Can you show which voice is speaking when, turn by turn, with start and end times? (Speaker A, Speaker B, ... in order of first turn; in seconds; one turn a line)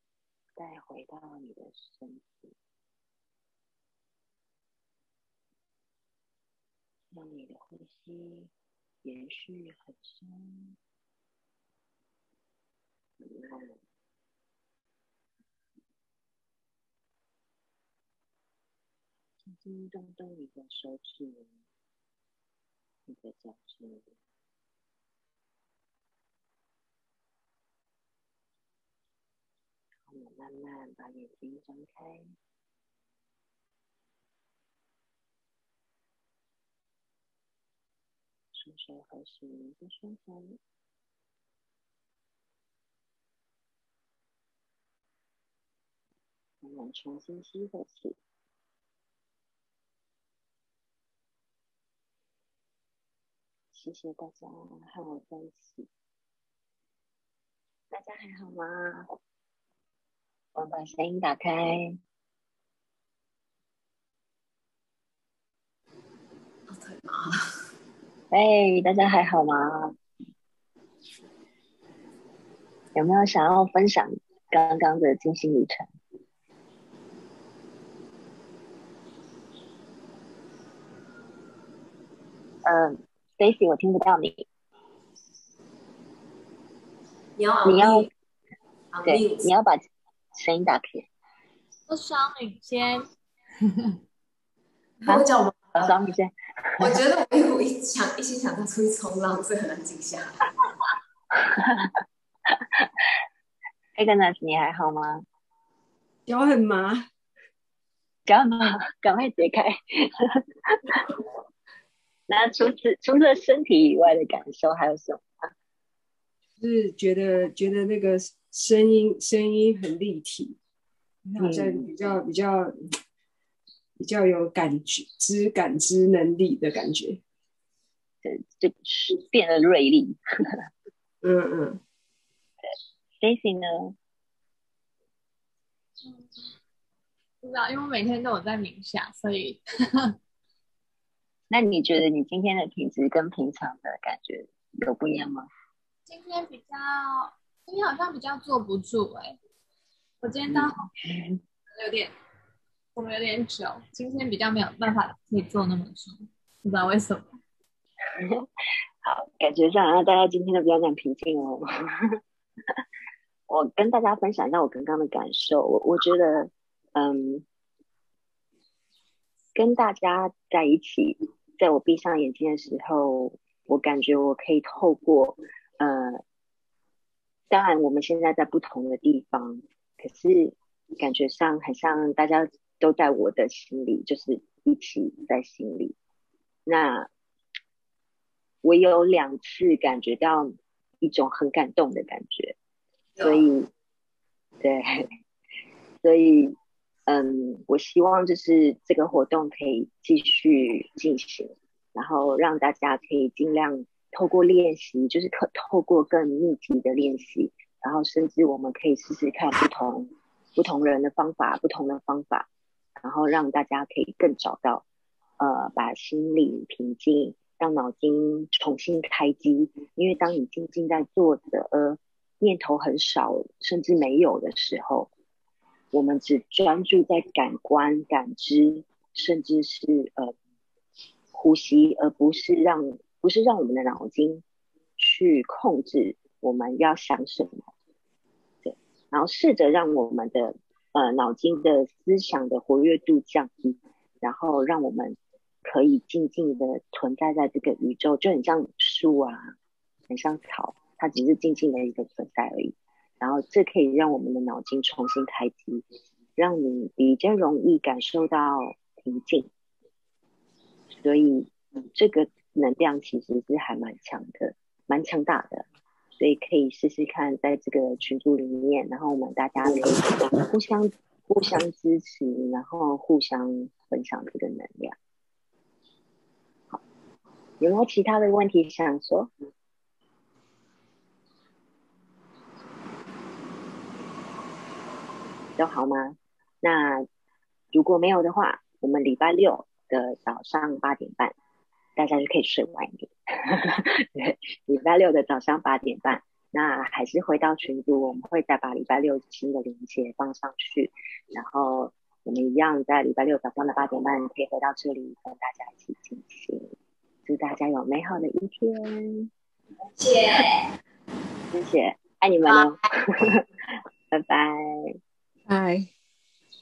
Speaker A: 0.6-2.5
Speaker A: 7.1-8.5
Speaker A: 9.0-10.8
Speaker A: 13.2-13.8
Speaker A: 19.4-21.6
Speaker A: 23.1-24.1
Speaker A: 30.1-32.3
Speaker A: 38.5-40.6
Speaker A: 46.6-48.2
Speaker A: 53.7-55.9
Speaker A: 57.9-59.1
Speaker A: 60.5-62.0
Speaker B: 66.7-67.5
Speaker A: 68.3-69.9
Speaker A: 72.9-75.9
Speaker A: 82.6-84.5
Speaker B: 87.4-88.1
Speaker A: 87.6-88.1
Speaker B: 88.9-89.5
Speaker A: 89.0-91.1
Speaker C: 91.9-93.1
Speaker C: 93.6-94.0
Speaker B: 95.0-96.0
Speaker A: 95.1-97.0
Speaker B: 96.8-100.4
Speaker A: 101.3-101.9
Speaker A: 102.5-102.9
Speaker A: 104.0-105.2
Speaker D: 106.2-107.0
Speaker A: 108.3-111.2
Speaker A: 112.3-115.2
Speaker D: 116.6-120.6
Speaker D: 121.4-122.7
Speaker A: 121.4-121.9
Speaker D: 124.0-127.2
Speaker A: 128.2-130.6
Speaker D: 131.2-131.8
Speaker A: 133.2-133.9
Speaker C: 136.0-136.4
Speaker C: 137.4-140.2
Speaker A: 141.5-145.5
Speaker C: 146.1-149.4
Speaker C: 150.2-150.8
Speaker A: 150.5-151.3
Speaker C: 151.7-152.1
Speaker C: 152.9-157.3
Speaker A: 158.1-158.5
Speaker A: 159.0-162.2
Speaker A: 163.5-167.4
Speaker A: 169.5-176.2
Speaker A: 177.5-185.9
Speaker A: 186.7-187.1
Speaker A: 188.6-192.6
Speaker B: 193.2-193.5
Speaker A: 193.2-193.7
Speaker A: 194.6-195.1
Speaker A: 196.0-212.5
Speaker A: 213.0-214.8
Speaker A: 215.4-225.1
Speaker A: 225.9-230.3
Speaker A: 231.3-234.4
Speaker A: 235.0-237.7
Speaker A: 238.6-249.5
Speaker A: 250.1-255.8
Speaker A: 256.4-259.5
Speaker A: 261.0-265.6
Speaker A: 266.2-275.0
Speaker A: 277.6-279.3
Speaker A: 285.6-287.1
Speaker A: 287.7-291.3
Speaker A: 291.9-306.7
Speaker A: 307.2-309.3
Speaker C: 310.0-310.6
Speaker A: 311.5-314.9
Speaker D: 315.5-315.9